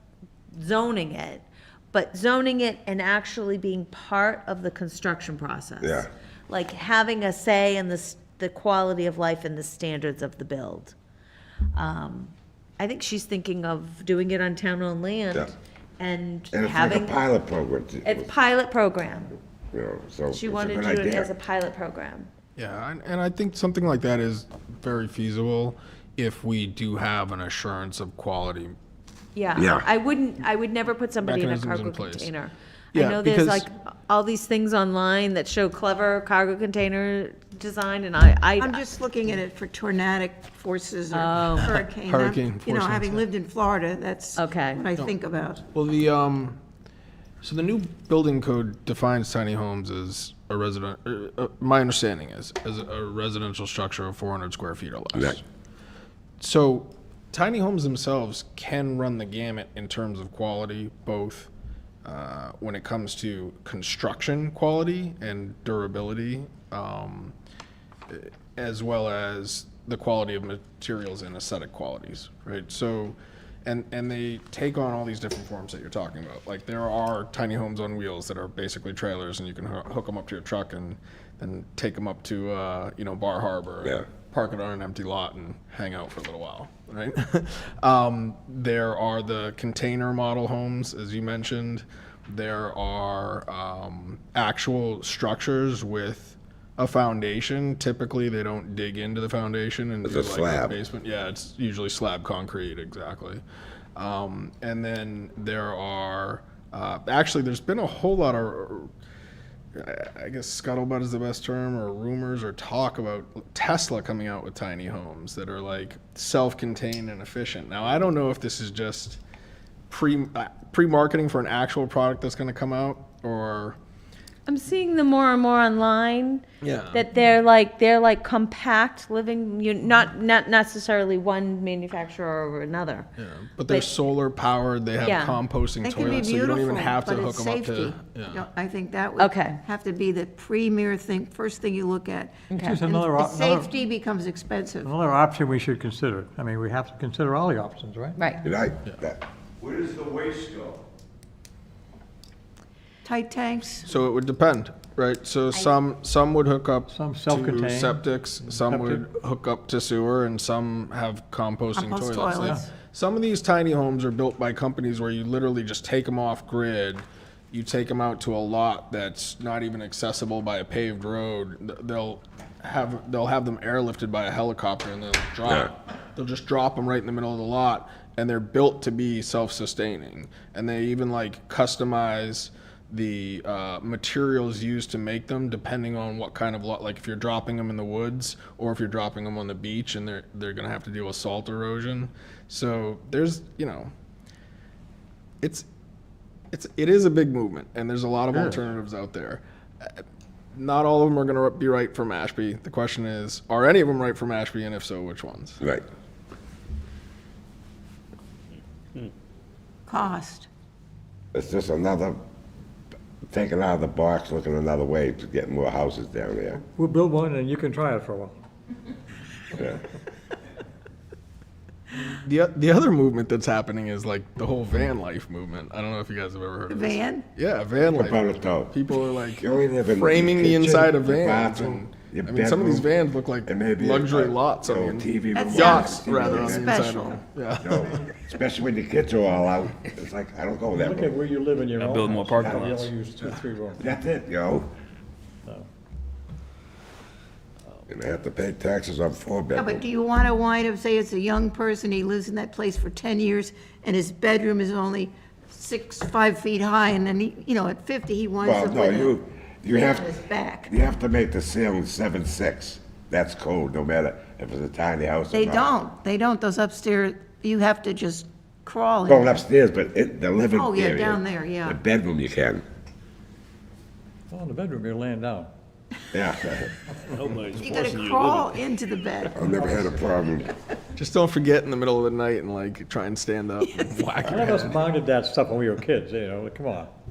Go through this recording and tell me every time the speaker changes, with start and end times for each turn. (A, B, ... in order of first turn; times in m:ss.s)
0:00.5-0:10.9 A
0:05.8-0:06.1 B
0:11.7-0:17.2 A
0:16.5-0:18.3 B
0:18.0-0:19.4 A
0:19.7-0:21.3 B
0:20.3-0:22.3 A
0:22.6-0:28.7 C
0:29.3-0:38.8 A
0:29.6-0:29.9 B
0:31.2-0:32.3 C
0:32.9-0:33.6 C
0:38.6-0:45.6 D
0:41.1-0:41.7 A
0:41.6-0:43.2 C
0:44.4-0:44.9 A
0:45.7-0:46.6 C
0:47.4-0:55.4 C
0:55.1-0:55.4 B
0:56.4-1:01.5 C
1:02.0-1:07.3 C
1:08.1-1:43.4 C
1:40.0-1:40.8 B
1:44.0-1:48.9 C
1:49.7-1:59.2 C
1:59.9-2:03.8 C
2:04.4-2:13.1 A
2:06.6-2:07.0 C
2:13.2-2:18.5 C
2:15.0-2:15.4 A
2:15.8-2:24.9 D
2:19.2-2:19.6 A
2:22.5-2:22.8 A
2:22.5-2:23.7 E
2:24.8-2:28.2 E
2:28.4-2:29.2 B
2:29.6-2:30.8 F
2:33.0-2:33.9 D
2:33.8-3:13.9 C
2:36.9-2:39.0 E
2:41.7-2:42.7 D
2:42.3-2:42.7 E
2:55.4-2:55.7 B
3:15.4-3:15.6 C
3:16.5-3:20.0 C
3:18.3-3:18.6 E
3:20.5-3:25.6 C
3:29.9-3:30.5 D
3:31.3-3:32.2 B
3:33.3-3:36.6 B
3:36.7-3:38.4 E
3:39.5-3:39.8 B
3:42.0-3:57.9 C
3:46.7-3:47.2 D
3:48.0-3:48.7 B
3:49.4-3:52.9 B
3:53.4-3:56.8 B
3:55.3-3:57.2 D
3:57.6-4:01.1 B
4:00.7-4:03.8 E
4:01.8-4:02.9 F
4:01.9-4:02.6 C
4:02.4-4:02.8 B
4:03.8-4:04.7 B
4:07.9-4:09.8 B
4:09.6-4:19.1 D
4:18.4-4:20.1 B
4:19.7-4:20.7 D
4:20.6-4:25.7 B
4:25.3-4:29.4 D
4:29.0-4:32.6 B
4:30.5-4:31.8 D
4:34.3-4:35.5 E
4:36.1-4:36.7 B
4:37.2-4:38.5 F
4:37.5-4:40.0 D
4:39.4-4:40.5 B
4:40.9-4:44.9 C
4:44.2-4:46.9 E